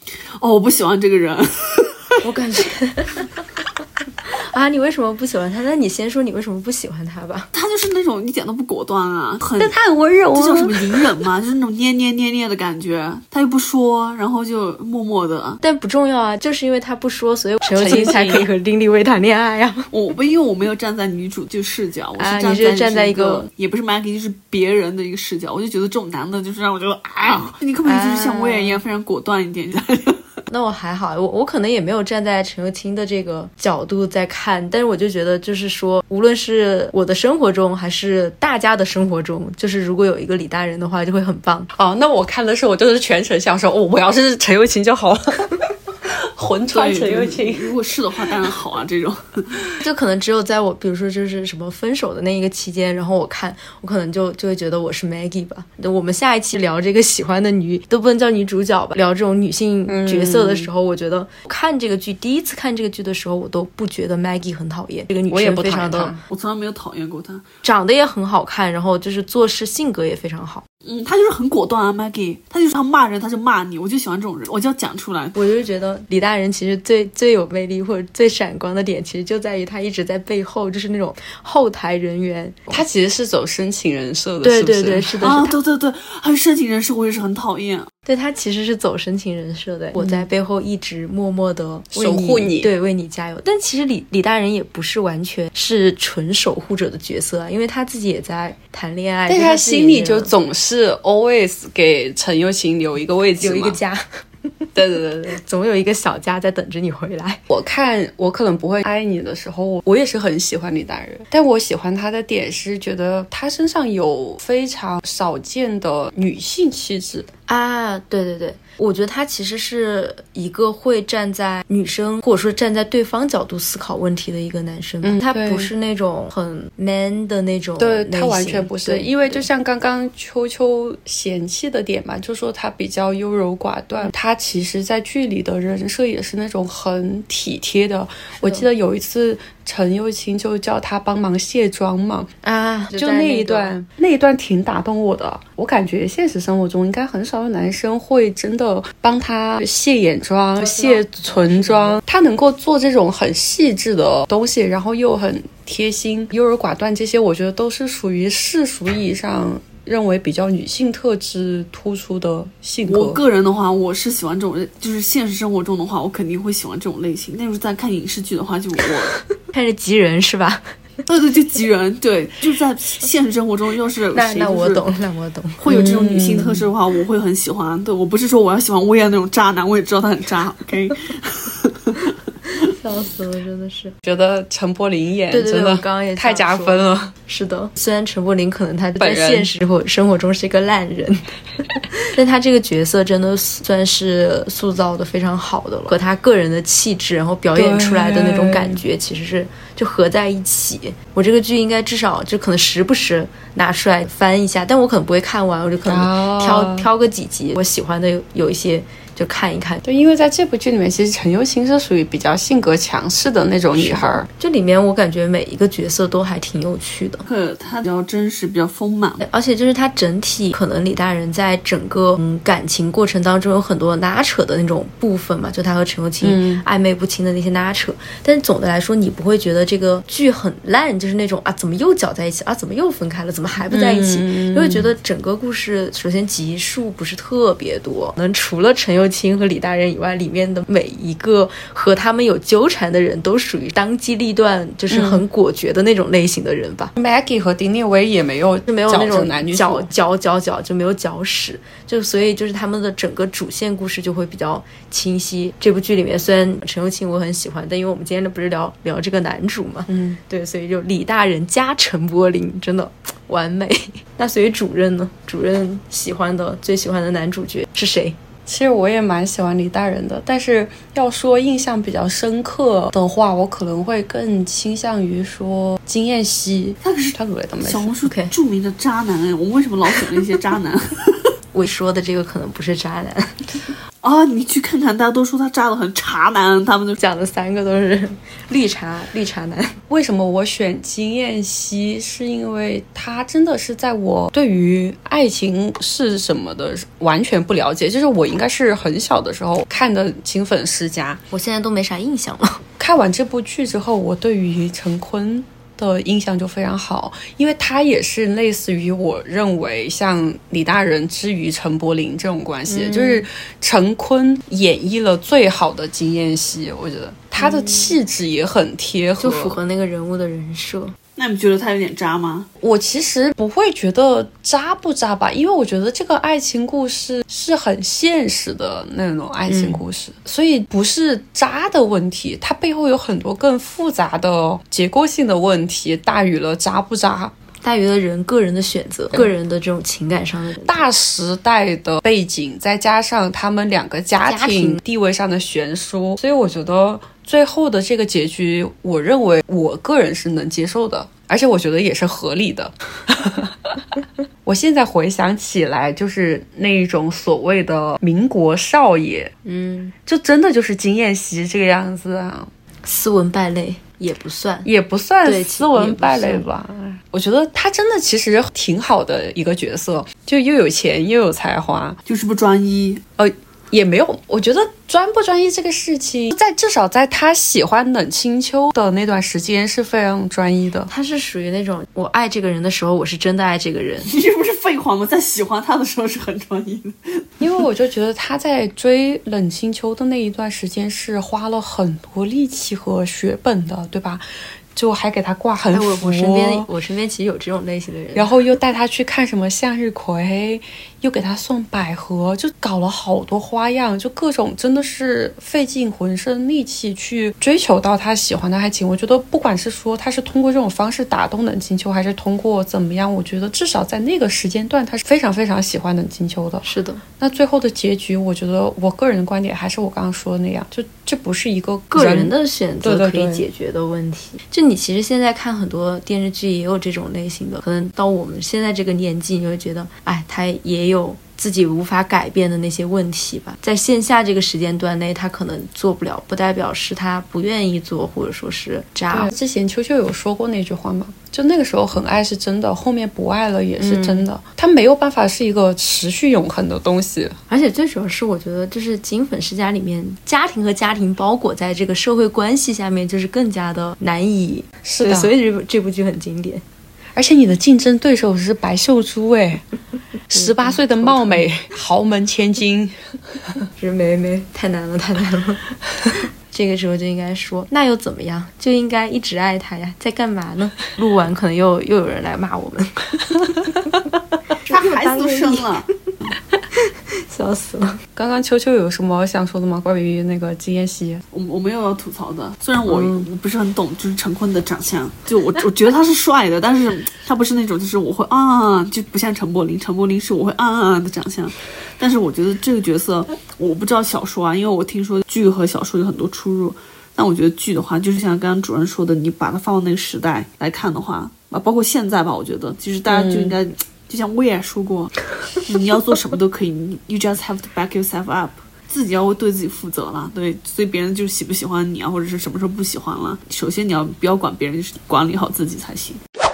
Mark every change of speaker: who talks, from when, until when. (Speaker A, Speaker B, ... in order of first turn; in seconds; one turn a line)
Speaker A: 0.4-2.2
Speaker B: 2.2-3.2
Speaker B: 4.3-7.5
Speaker A: 7.5-9.8
Speaker C: 9.6-11.1
Speaker A: 10.3-15.6
Speaker B: 15.6-19.9
Speaker C: 17.8-18.5
Speaker A: 19.9-30.3
Speaker B: 22.2-23.5
Speaker B: 27.9-28.8
Speaker B: 30.5-41.7
Speaker C: 41.7-47.7
Speaker A: 46.7-49.6
Speaker B: 49.8-66.1
Speaker C: 59.9-60.7
Speaker C: 65.3-66.2
Speaker A: 66.3-67.5
Speaker B: 67.6-70.6
Speaker A: 70.8-75.4
Speaker B: 75.3-82.8
Speaker C: 82.7-85.2
Speaker B: 84.4-85.5
Speaker A: 85.2-87.9
Speaker B: 88.1-100.3
Speaker C: 90.0-90.3
Speaker C: 91.9-92.7
Speaker C: 99.3-103.8
Speaker B: 103.4-104.0
Speaker C: 104.8-105.4
Speaker B: 105.2-107.4
Speaker C: 107.5-117.3
Speaker B: 117.5-129.4
Speaker C: 125.0-125.7
Speaker C: 127.8-142.3
Speaker B: 138.4-138.7
Speaker B: 142.4-143.8
Speaker C: 142.9-163.2
Speaker B: 150.6-152.0
Speaker A: 162.9-169.2
Speaker B: 169.5-170.6
Speaker A: 171.1-174.9
Speaker B: 174.1-175.6
Speaker A: 175.6-182.1
Speaker C: 175.7-176.7
Speaker B: 182.6-183.9
Speaker C: 184.0-187.1
Speaker B: 185.3-191.3
Speaker C: 189.0-189.5
Speaker B: 191.9-209.8
Speaker C: 197.6-198.8
Speaker C: 205.8-206.9
Speaker C: 209.8-214.3
Speaker B: 213.7-217.2
Speaker A: 217.3-219.2
Speaker B: 219.2-246.9
Speaker C: 226.2-226.6
Speaker C: 233.7-234.9
Speaker C: 244.9-245.2
Speaker C: 247.0-249.9
Speaker B: 248.7-268.2
Speaker C: 259.9-260.2
Speaker C: 268.5-277.9
Speaker A: 276.8-281.3
Speaker B: 278.0-278.3
Speaker B: 281.5-283.4
Speaker A: 284.0-287.0
Speaker B: 287.0-289.8
Speaker C: 289.9-301.2
Speaker B: 301.3-302.6
Speaker C: 302.8-319.6
Speaker B: 312.7-313.2
Speaker B: 317.4-318.0
Speaker B: 319.2-320.9
Speaker A: 321.2-322.5
Speaker C: 322.6-337.3
Speaker B: 329.5-329.8
Speaker B: 337.6-340.9
Speaker C: 340.6-353.8
Speaker B: 344.2-344.8
Speaker C: 354.4-359.3
Speaker B: 359.4-359.9
Speaker C: 360.1-362.5
Speaker B: 362.9-364.7
Speaker C: 364.6-372.0
Speaker B: 365.2-366.4
Speaker A: 372.1-373.0
Speaker C: 373.2-380.9
Speaker B: 380.9-384.1
Speaker A: 384.0-387.5
Speaker C: 387.4-394.2
Speaker C: 394.8-396.7
Speaker B: 395.7-398.3
Speaker C: 398.1-416.6
Speaker B: 416.6-417.0
Speaker C: 417.2-423.4
Speaker B: 421.9-439.3
Speaker C: 439.1-447.4
Speaker B: 443.8-444.2
Speaker B: 447.5-456.6
Speaker C: 454.8-455.3
Speaker C: 457.1-459.6
Speaker C: 460.3-462.9
Speaker B: 460.3-461.5
Speaker B: 463.8-473.7
Speaker B: 474.7-475.7
Speaker A: 474.7-475.9
Speaker B: 476.7-478.0
Speaker C: 478.2-481.2
Speaker A: 481.3-516.2
Speaker C: 482.9-483.3
Speaker C: 503.1-503.6